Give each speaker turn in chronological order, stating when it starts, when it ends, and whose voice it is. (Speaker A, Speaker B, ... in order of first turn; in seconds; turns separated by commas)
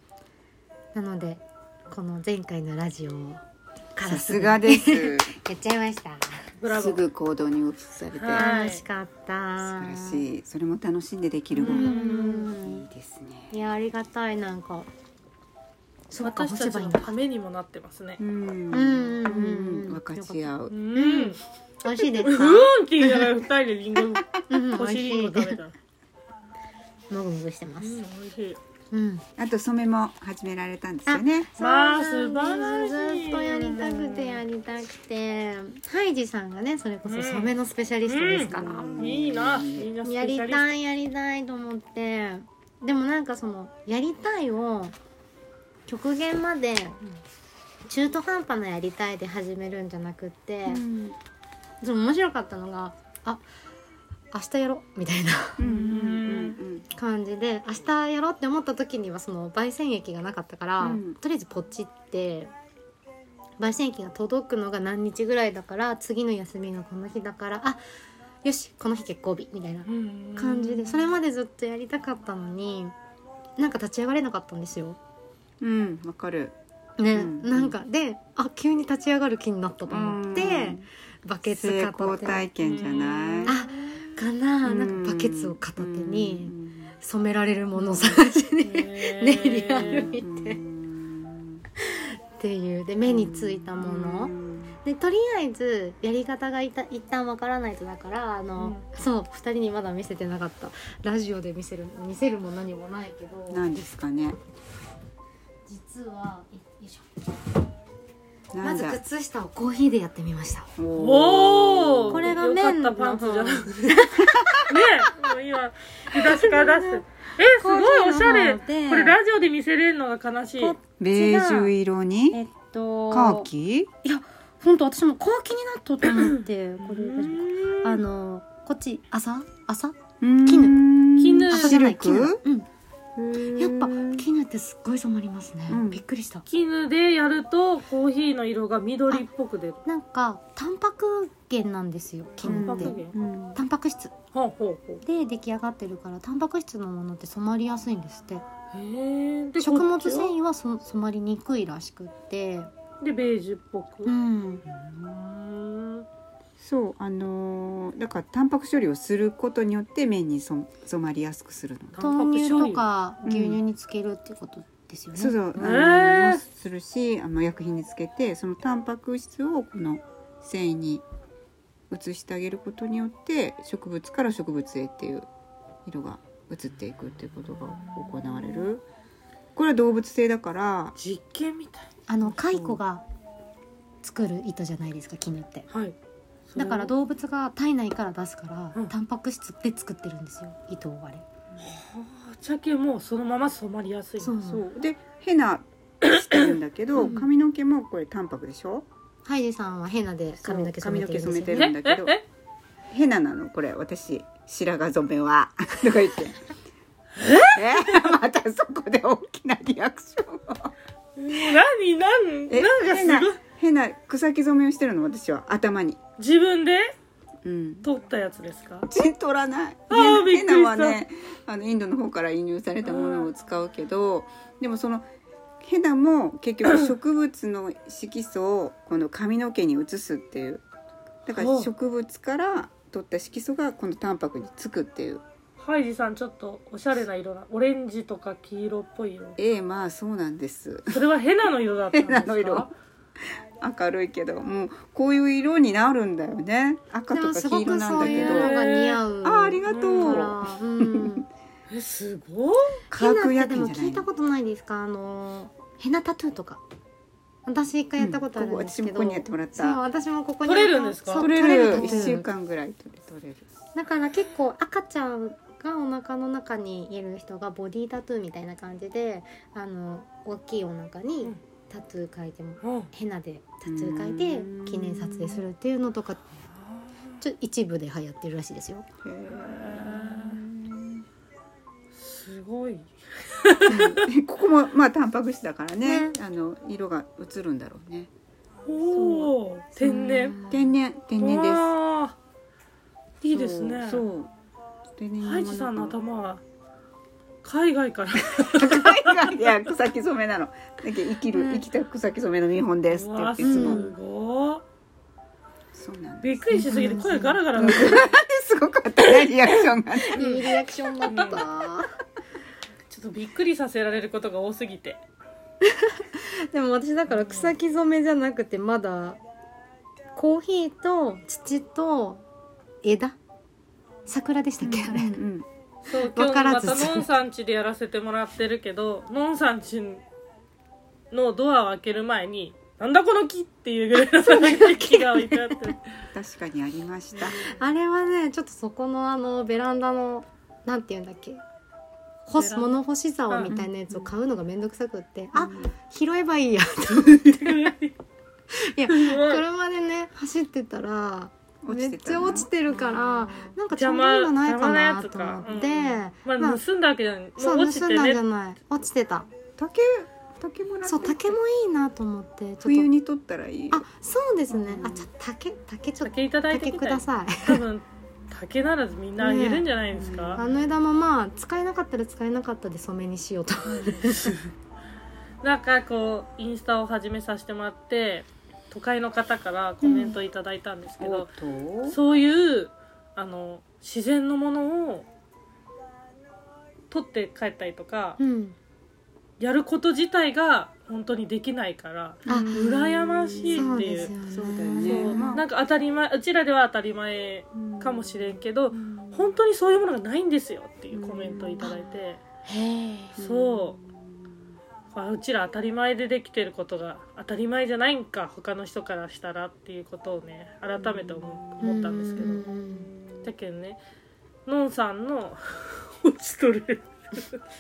Speaker A: 0.9-3.4, Speaker A: 4.0-6.5, Speaker B: 4.0-5.3, Speaker C: 6.6-7.0, Speaker B: 6.7-8.4, Speaker C: 8.2-8.8, Speaker A: 8.3-10.2, Speaker B: 9.6-13.5, Speaker A: 11.6-12.9, Speaker C: 11.6-12.5, Speaker A: 13.5-14.9, Speaker A: 16.1-17.1, Speaker C: 16.2-18.2, Speaker B: 18.2-20.8, Speaker A: 18.7-22.4, Speaker C: 20.7-21.4, Speaker C: 22.2-25.7, Speaker B: 22.3-22.7, Speaker A: 24.5-25.6, Speaker A: 27.1-28.0, Speaker C: 27.8-28.6, Speaker A: 28.9-29.2, Speaker B: 29.4-31.5, Speaker A: 31.1-39.2, Speaker C: 31.6-34.4, Speaker C: 37.1-40.7, Speaker B: 38.5-39.9, Speaker A: 40.0-45.0, Speaker A: 45.9-47.2, Speaker A: 47.9-50.8, Speaker B: 50.7-51.2, Speaker A: 51.8-53.4, Speaker A: 54.3-55.6, Speaker B: 55.6-56.9, Speaker C: 55.6-56.6, Speaker A: 56.9-62.5, Speaker B: 60.8-61.2, Speaker A: 63.6-67.8, Speaker A: 68.4-72.9, Speaker C: 69.9-71.1, Speaker A: 73.6-75.0, Speaker B: 75.6-76.5, Speaker A: 77.0-82.5, Speaker B: 77.1-77.8, Speaker B: 79.9-80.9, Speaker B: 81.5-83.5, Speaker C: 82.6-83.7, Speaker A: 83.5-90.6, Speaker B: 84.6-87.0, Speaker C: 88.6-90.1, Speaker B: 89.8-91.7, Speaker A: 91.8-103.7, Speaker B: 93.0-94.8, Speaker C: 98.6-98.8, Speaker B: 103.5-104.4, Speaker A: 105.7-107.1, Speaker B: 108.5-109.0, Speaker A: 108.6-110.7, Speaker B: 110.8-112.3, Speaker C: 111.0-114.1, Speaker A: 112.1-114.7, Speaker B: 114.2-114.6, Speaker C: 114.7-120.8, Speaker A: 116.1-119.2, Speaker A: 120.6-121.7, Speaker B: 121.0-122.4, Speaker A: 122.3-123.5, Speaker B: 123.1-123.9, Speaker A: 124.0-130.9, Speaker C: 126.0-128.0, Speaker B: 130.2-132.4, Speaker C: 131.2-131.8, Speaker A: 131.5-132.7, Speaker B: 133.2-134.2, Speaker A: 133.4-136.5, Speaker B: 135.7-136.0, Speaker C: 136.5-139.8, Speaker A: 139.8-143.0, Speaker C: 142.4-143.2, Speaker B: 142.4-143.6, Speaker A: 143.6-144.1, Speaker C: 144.3-145.0, Speaker A: 145.0-148.4, Speaker C: 148.7-150.3, Speaker A: 149.6-152.7, Speaker C: 153.0-154.1, Speaker A: 154.1-154.6, Speaker C: 154.7-156.1, Speaker B: 156.6-162.0, Speaker C: 161.9-162.8, Speaker A: 162.0-165.3, Speaker B: 163.2-163.6, Speaker B: 165.2-171.0, Speaker C: 165.6-166.4, Speaker B: 171.9-175.3, Speaker B: 175.8-178.8, Speaker C: 177.6-178.6, Speaker B: 179.6-181.0, Speaker C: 181.0-181.9, Speaker A: 182.1-183.1, Speaker B: 182.2-182.8, Speaker A: 184.0-185.7, Speaker C: 186.5-186.9, Speaker A: 186.6-191.2, Speaker C: 191.6-194.3, Speaker A: 194.2-194.6, Speaker B: 194.4-198.9, Speaker C: 196.1-196.5, Speaker A: 197.0-197.3, Speaker A: 199.2-201.7, Speaker B: 200.4-202.2, Speaker C: 201.5-202.2, Speaker B: 202.9-206.4, Speaker C: 207.2-207.8, Speaker B: 207.5-210.7, Speaker C: 211.2-213.4, Speaker B: 212.5-216.0, Speaker C: 216.2-216.9, Speaker B: 217.4-217.9, Speaker C: 217.8-218.9, Speaker B: 218.9-225.1, Speaker C: 219.9-221.0, Speaker C: 222.8-223.3, Speaker B: 225.6-230.6, Speaker B: 231.3-235.2, Speaker C: 231.4-231.7, Speaker C: 235.6-239.4, Speaker B: 239.4-241.0, Speaker C: 240.9-242.7, Speaker B: 241.9-248.5, Speaker A: 247.1-251.3, Speaker C: 247.9-249.0, Speaker B: 249.2-251.2, Speaker C: 249.7-250.3, Speaker C: 251.7-252.8, Speaker B: 252.9-254.1, Speaker A: 252.9-256.6, Speaker A: 257.5-262.3, Speaker B: 258.0-259.8, Speaker C: 260.4-262.1, Speaker B: 261.1-263.5, Speaker A: 263.8-276.2, Speaker C: 272.6-272.9, Speaker B: 273.6-275.4, Speaker C: 276.6-277.2, Speaker A: 277.2-278.9, Speaker B: 279.0-281.1, Speaker C: 279.3-280.4, Speaker C: 281.9-284.1, Speaker B: 283.7-288.1, Speaker A: 285.8-286.1, Speaker C: 288.7-290.4, Speaker B: 288.9-289.3, Speaker A: 289.8-290.7, Speaker B: 290.5-291.7, Speaker C: 291.2-292.2, Speaker B: 293.2-294.3, Speaker C: 293.2-294.1, Speaker B: 295.0-296.0, Speaker C: 295.2-296.4, Speaker C: 297.4-299.5, Speaker B: 298.3-303.8, Speaker A: 301.3-301.6, Speaker C: 302.9-304.6, Speaker A: 303.4-303.9, Speaker B: 305.7-306.5, Speaker C: 306.2-308.1, Speaker A: 306.5-308.1, Speaker B: 307.5-310.2, Speaker A: 309.9-311.9, Speaker C: 310.2-310.5, Speaker C: 311.1-311.4, Speaker C: 312.9-315.0, Speaker A: 315.6-319.2, Speaker C: 317.1-317.6, Speaker A: 320.1-322.2, Speaker A: 322.8-323.2, Speaker A: 324.1-325.2, Speaker B: 324.6-325.5, Speaker C: 325.9-330.0, Speaker A: 326.0-327.1, Speaker C: 331.1-336.0, Speaker A: 334.0-335.7, Speaker B: 336.1-337.5, Speaker A: 337.2-341.4, Speaker A: 342.3-347.7, Speaker C: 342.4-342.7, Speaker B: 343.5-344.1, Speaker B: 345.4-345.7, Speaker C: 347.4-347.9, Speaker A: 348.5-356.6, Speaker C: 348.9-349.4, Speaker B: 351.6-352.5, Speaker B: 353.0-353.5, Speaker C: 353.7-358.2, Speaker A: 357.4-359.3, Speaker B: 359.6-361.4, Speaker A: 360.9-362.9, Speaker B: 362.6-363.9, Speaker A: 363.7-367.6, Speaker B: 364.5-365.1, Speaker C: 366.0-370.4, Speaker A: 369.2-369.7, Speaker B: 369.9-370.8, Speaker A: 370.4-374.3, Speaker C: 375.4-381.3, Speaker A: 379.8-380.2, Speaker B: 381.0-382.0, Speaker C: 381.9-385.1, Speaker C: 386.9-388.2, Speaker A: 388.2-388.6, Speaker C: 389.4-394.1, Speaker A: 392.3-392.6, Speaker B: 392.3-395.5, Speaker A: 393.5-395.4, Speaker C: 394.9-402.2, Speaker B: 397.6-399.4, Speaker B: 400.9-401.7, Speaker A: 402.5-403.2, Speaker B: 403.2-404.4, Speaker C: 403.2-403.8, Speaker C: 404.9-412.5, Speaker B: 410.8-411.7, Speaker A: 411.6-412.9, Speaker B: 412.7-413.3, Speaker C: 413.2-413.8, Speaker C: 414.5-417.4